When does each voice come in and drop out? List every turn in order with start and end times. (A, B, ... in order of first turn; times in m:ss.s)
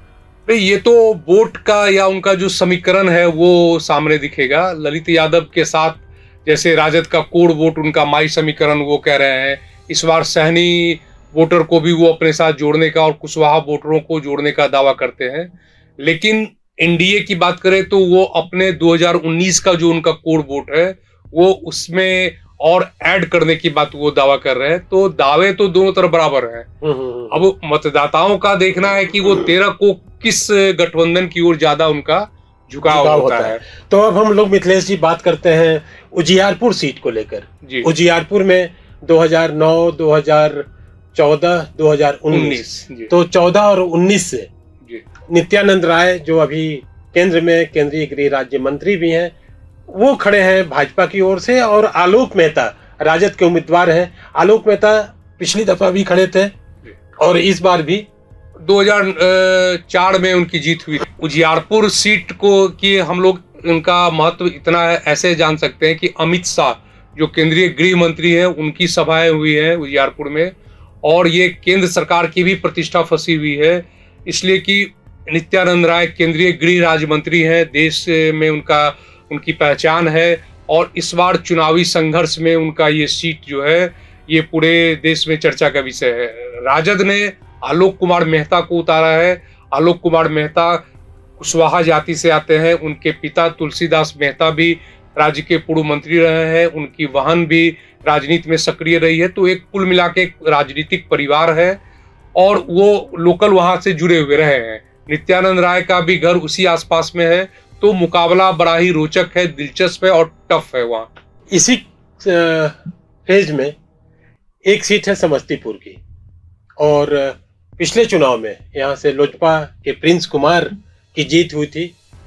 0:00.5-0:26.6 A
0:26.8-0:27.4 B
0:27.3-0:33.6 A
0:32.8-0:44.5 B
0:42.3-0:43.1 A
0:45.3-0:49.3 B
0:49.9-0:56.5 B
0:57.2-0:58.1 B
0:58.6-1:10.5 A
1:11.0-1:30.8 A
1:31.4-1:41.8 A
1:42.4-1:51.1 A
1:51.5-1:53.7 B
1:54.6-1:56.0 B
1:56.8-2:01.9 B